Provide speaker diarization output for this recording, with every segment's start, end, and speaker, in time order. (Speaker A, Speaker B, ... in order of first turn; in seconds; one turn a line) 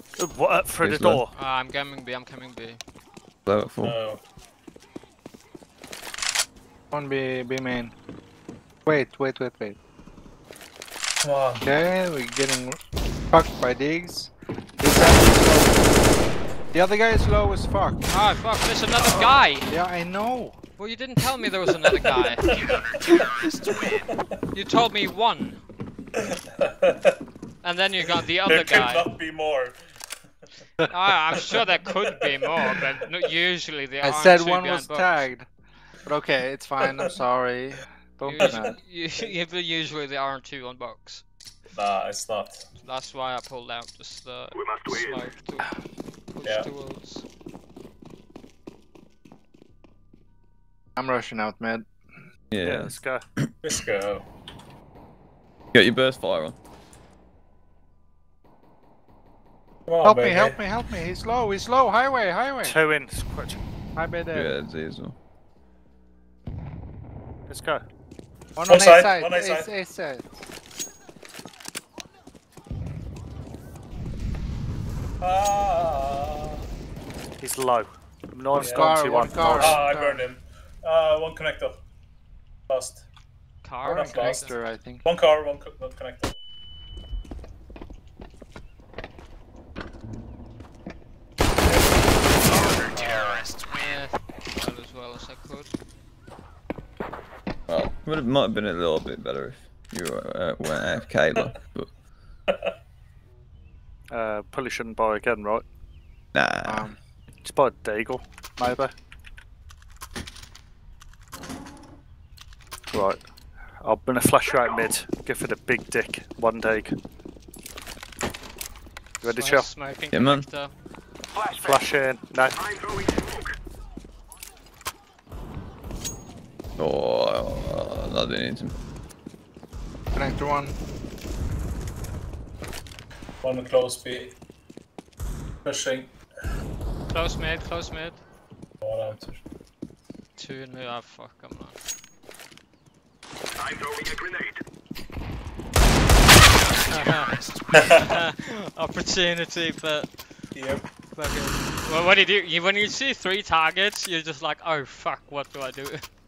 Speaker A: 0.2-1.3
Speaker B: 0.8-1.2
Speaker C: 1.3-2.8
Speaker B: 3.5-4.0
Speaker D: 3.8-4.2
Speaker E: 6.9-7.9
Speaker E: 8.8-9.8
Speaker D: 11.2-11.7
Speaker E: 11.6-15.8
Speaker E: 16.7-18.0
Speaker C: 18.1-19.7
Speaker E: 19.7-20.6
Speaker C: 20.8-22.5
Speaker D: 22.5-24.2
Speaker B: 23.1-23.7
Speaker C: 24.5-25.6
Speaker D: 26.2-27.2
Speaker C: 27.6-29.1
Speaker D: 28.4-29.8
Speaker C: 30.8-35.3
Speaker D: 31.4-32.9
Speaker E: 34.0-35.5
Speaker E: 36.0-38.8
Speaker C: 38.2-41.2
Speaker D: 41.7-42.6
Speaker C: 42.8-45.8
Speaker C: 46.3-47.2
Speaker E: 51.0-51.9
Speaker B: 52.5-53.5
Speaker A: 52.6-53.2
Speaker D: 53.6-54.2
Speaker B: 55.7-56.5
Speaker D: 59.9-60.6
Speaker E: 60.0-62.8
Speaker A: 62.6-63.6
Speaker E: 64.0-64.5
Speaker B: 64.3-65.1
Speaker A: 67.5-67.8
Speaker E: 68.6-70.3
Speaker D: 68.7-69.7
Speaker D: 75.2-76.6
Speaker A: 77.4-79.8
Speaker E: 78.5-80.2
Speaker D: 78.5-81.8
Speaker D: 82.7-83.0
Speaker C: 83.6-84.5
Speaker E: 83.8-85.0
Speaker D: 83.8-86.3
Speaker D: 92.9-93.5
Speaker C: 93.6-95.7
Speaker B: 97.7-101.9
Speaker A: 104.1-105.6
Speaker B: 106.3-106.9
Speaker E: 106.6-107.0
Speaker A: 107.4-108.9
Speaker A: 112.9-113.2
Speaker A: 113.8-117.0
Speaker A: 119.2-119.7
Speaker C: 119.2-120.7
Speaker B: 120.1-120.5
Speaker F: 121.3-121.8
Speaker A: 121.6-122.6
Speaker F: 122.8-123.4
Speaker B: 126.8-128.7
Speaker E: 130.1-130.8
Speaker D: 133.4-134.3
Speaker D: 135.6-136.1
Speaker C: 137.1-138.2
Speaker D: 138.8-139.4
Speaker C: 140.4-141.8
Speaker F: 143.6-144.6
Speaker C: 146.9-150.5
Speaker D: 147.8-148.1
Speaker D: 150.5-150.8
Speaker C: 151.1-156.0